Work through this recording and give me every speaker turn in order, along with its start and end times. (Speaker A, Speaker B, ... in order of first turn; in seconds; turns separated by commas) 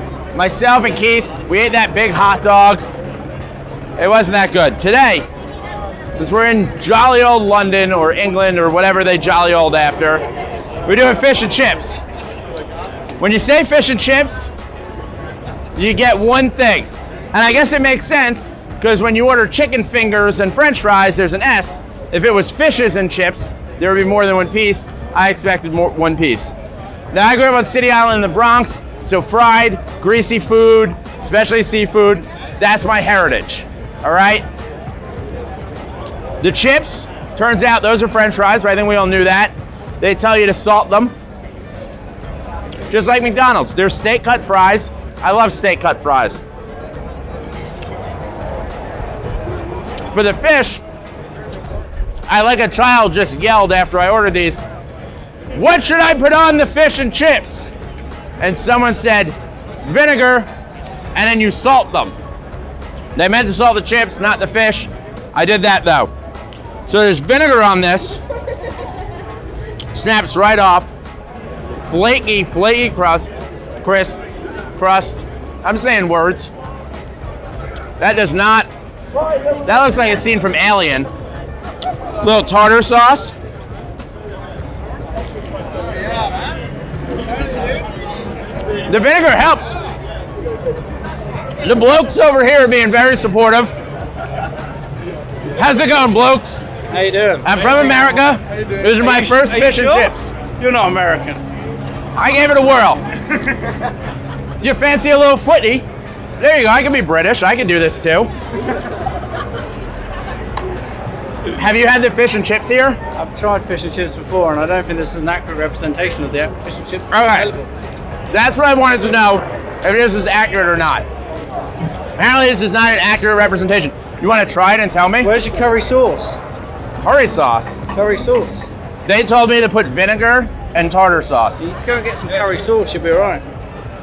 Speaker A: 0.3-2.8, Speaker A: 4.0-5.2, Speaker A: 6.1-10.2, Speaker A: 10.8-12.0, Speaker A: 13.2-14.5, Speaker A: 15.8-26.5, Speaker A: 27.1-34.5, Speaker A: 36.4-41.1, Speaker A: 42.9-46.4, Speaker A: 50.1-50.8, Speaker A: 52.3-54.6, Speaker A: 55.5-57.7, Speaker A: 58.4-60.5, Speaker A: 61.1-62.1, Speaker A: 63.1-66.1, Speaker A: 66.9-68.2, Speaker A: 69.9-70.9, Speaker A: 71.8-73.3, Speaker A: 73.8-74.2, Speaker A: 74.8-76.5, Speaker A: 78.0-78.7, Speaker A: 79.6-81.1, Speaker A: 82.2-83.3, Speaker A: 88.9-89.8, Speaker A: 91.6-93.7, Speaker A: 95.5-96.7, Speaker B: 96.9-97.6, Speaker A: 97.4-100.3, Speaker B: 98.9-101.4, Speaker A: 102.1-103.1, Speaker A: 104.6-105.8, Speaker A: 106.4-108.3, Speaker A: 111.5-113.0, Speaker B: 113.1-117.7, Speaker A: 117.1-117.5, Speaker A: 118.3-121.0, Speaker A: 122.2-125.3, Speaker B: 125.2-126.4, Speaker A: 127.0-127.8, Speaker B: 127.9-128.7, Speaker A: 129.1-131.6, Speaker B: 131.6-133.4